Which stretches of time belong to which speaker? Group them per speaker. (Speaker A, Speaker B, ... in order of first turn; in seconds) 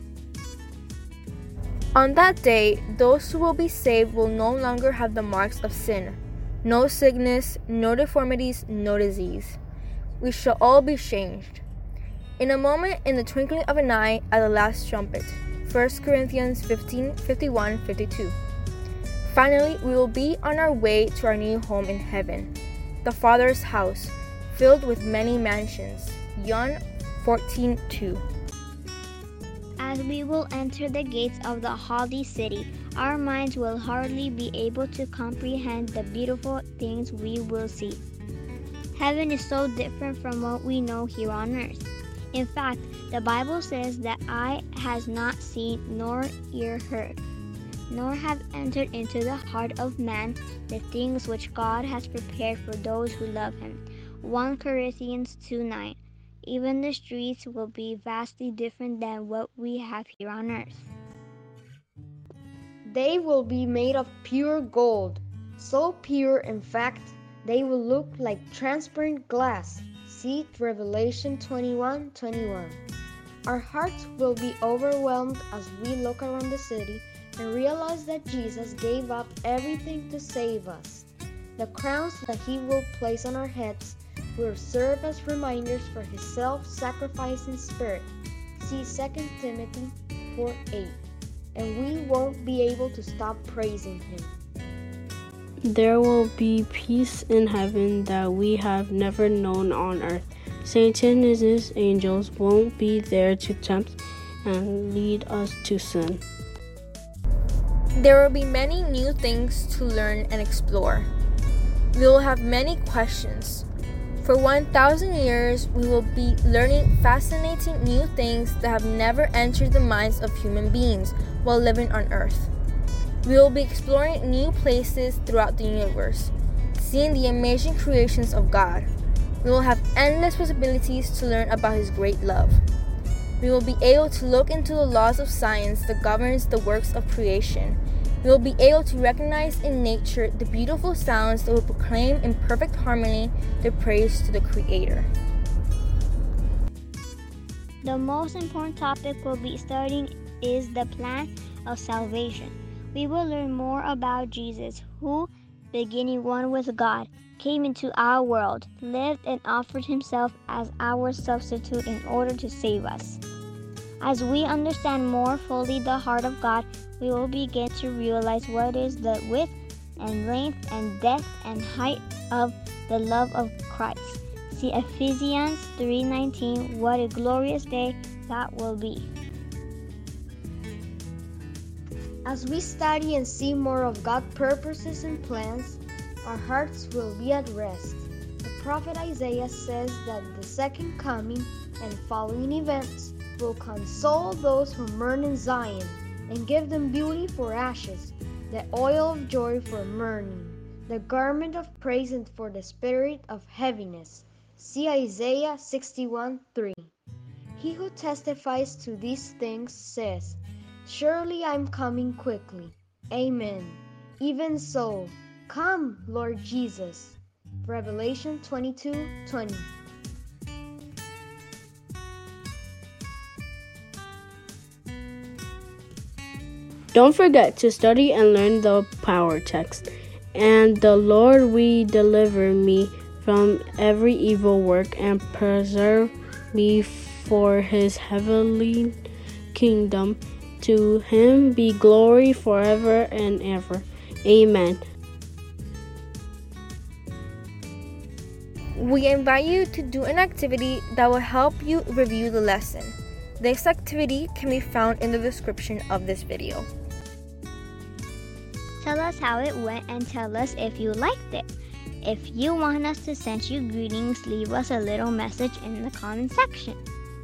Speaker A: 1.9-9.6, 10.2-11.6, 12.4-18.4, 19.3-22.5, 23.0-28.2, 108.0-111.1, 111.9-113.7, 114.2-122.5, 123.2-128.9, 129.4-132.6, 133.4-145.1, 248.8-256.7
Speaker B: 29.8-38.0, 38.9-47.2, 47.9-60.9, 147.8-163.2, 164.0-179.1, 258.8-261.5, 262.0-266.8
Speaker C: 62.9-72.8, 73.5-81.0, 81.6-91.0, 91.5-94.3, 182.2-206.9, 207.6-219.7
Speaker D: 95.6-106.2, 226.9-238.9, 239.5-244.8